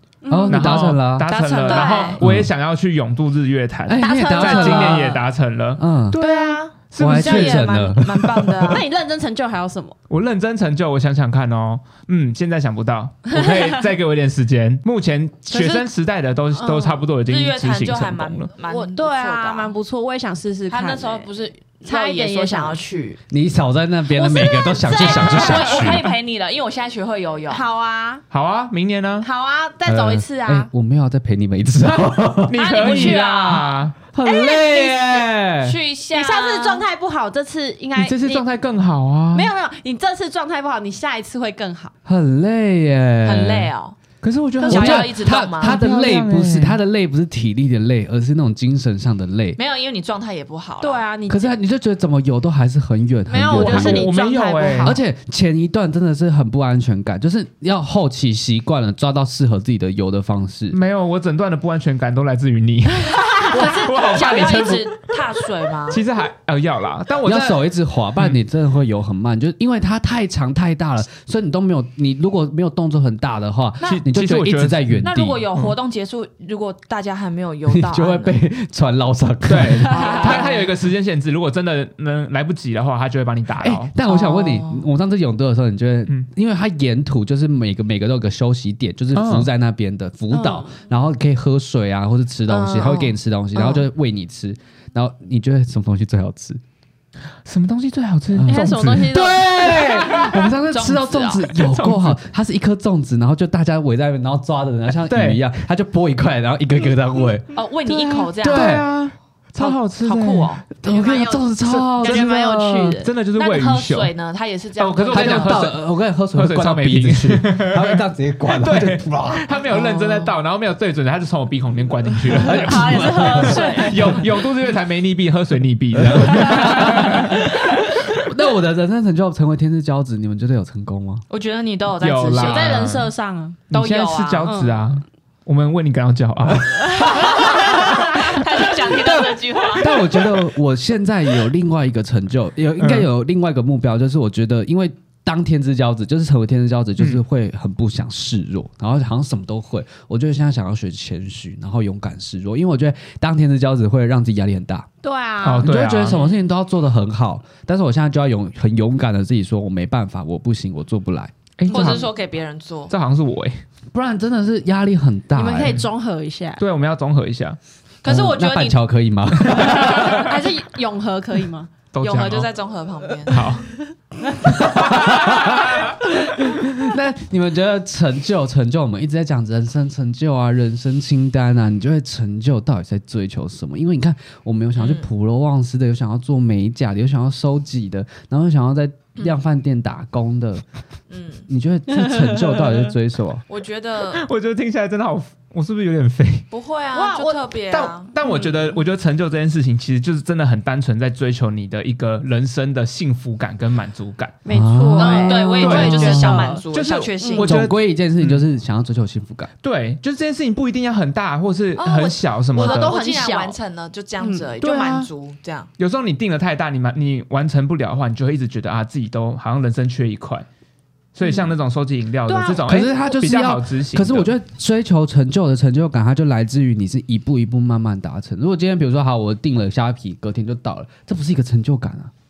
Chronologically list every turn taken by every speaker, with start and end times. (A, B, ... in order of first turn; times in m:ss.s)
0:00.2-0:00.9 A
0:00.3-0:01.3 B
0:00.4-0:07.8 C
0:01.3-0:02.2 D
0:01.6-0:02.2 A
0:02.2-0:02.5 B
0:03.9-0:05.2 B
0:04.0-0:05.2 A
0:05.8-0:06.2 B
0:06.2-0:08.8 D
0:06.2-0:06.6 A
0:07.0-0:08.8 B
0:08.6-0:10.0 A
0:10.1-0:18.5 C
0:13.3-0:13.7 A
0:15.5-0:15.8 D
0:16.6-0:17.0 A
0:17.2-0:19.7 D
0:18.6-0:21.3 A
0:20.7-0:23.2 D
0:21.8-0:22.8 A
0:23.3-0:26.1 B
0:24.1-0:25.8 A
0:24.8-0:27.6 D
0:27.5-0:28.2 A
0:28.3-0:29.3 C
0:29.2-0:30.7 A
0:29.8-0:35.8 B
0:32.5-0:33.9 C
0:32.5-0:33.8 D
0:34.2-0:35.2 A
0:35.6-0:36.8 D
0:36.1-0:38.4 A
0:37.9-0:39.5 C
0:39.3-0:41.9 A
0:42.0-0:43.7 B
0:43.2-0:44.0 D
0:44.2-0:46.8 C
0:44.6-0:45.8 D
0:44.6-0:49.6 B
0:49.6-0:51.0 D
0:50.8-0:51.5 A
0:51.3-0:54.1 B
0:53.3-0:55.0 A
0:53.5-0:54.9 C
0:54.8-1:00.8 B
1:00.7-1:05.2 C
1:03.1-1:03.7 A
1:03.4-1:06.0 D
1:05.9-1:07.6 C
1:07.2-1:15.4 B
1:13.8-1:15.7 C
1:15.0-1:18.3 D
1:17.7-1:20.4 B
1:19.4-1:23.9 C
1:19.9-1:20.7 D
1:23.6-1:36.6 B
1:24.0-1:24.8 D
1:29.1-1:29.5 C
1:30.3-1:30.7 A
1:32.5-1:33.8 D
1:37.4-1:40.4 C
1:38.3-1:47.4 B
1:38.5-1:39.5 A
1:39.9-1:41.5 D
1:41.5-1:42.2 C
1:45.1-1:45.4 C
1:47.5-1:48.8 D
1:47.8-1:50.6 C
1:48.4-1:48.9 B
1:50.0-1:50.7 D
1:50.8-1:53.0 B
1:50.8-1:53.1 A
1:51.6-1:52.3 C
1:53.0-1:54.1 C
1:53.4-1:55.7 D
1:54.8-1:55.8 C
1:55.1-1:59.5 B
1:56.3-2:08.1 C
1:59.7-2:00.3 D
2:02.3-2:04.2 B
2:02.5-2:04.1 A
2:03.5-2:04.0 D
2:05.9-2:11.2 B
2:11.3-2:12.9 D
2:12.0-2:13.1 C
2:12.4-2:13.6 A
2:13.7-2:17.1 C
2:13.7-2:14.5 D
2:14.4-2:14.9 A
2:16.6-2:17.9 B
2:16.9-2:18.1 A
2:17.1-2:20.1 D
2:19.0-2:34.9 B
2:22.8-2:23.1 C
2:35.0-2:35.7 A
2:35.4-2:36.2 C
2:35.6-2:42.0 B
2:36.0-2:36.4 D
2:41.6-2:42.1 C
2:41.7-2:42.9 D
2:42.9-2:43.6 C
2:43.9-2:45.8 B
2:45.3-2:46.6 A
2:46.6-2:47.6 C
2:48.0-2:48.8 D
2:48.1-2:50.3 B
2:49.4-2:50.3 C
2:49.6-2:51.7 A
2:51.9-2:52.5 C
2:52.0-2:53.5 D
2:53.3-2:53.7 C
2:54.4-2:55.7 B
2:54.7-2:55.5 C
2:56.4-3:10.6 B
3:04.8-3:05.0 D
3:11.1-3:11.5 D
3:11.5-3:13.4 B
3:12.1-3:12.6 A
3:13.5-3:14.2 D
3:14.1-3:16.4 C
3:16.5-3:18.7 D
3:16.9-3:17.4 A
3:17.7-3:24.4 C
3:24.4-3:26.6 A
3:24.5-3:26.4 B
3:25.0-3:27.6 D
3:25.6-3:28.4 C
3:27.4-3:29.5 B
3:29.6-3:32.9 C
3:31.8-3:35.7 D
3:32.5-3:33.6 A
3:34.2-3:34.5 A
3:34.6-3:35.1 C
3:35.8-3:40.4 C
3:41.1-3:44.3 C
3:42.3-3:42.6 A
3:42.6-3:52.1 B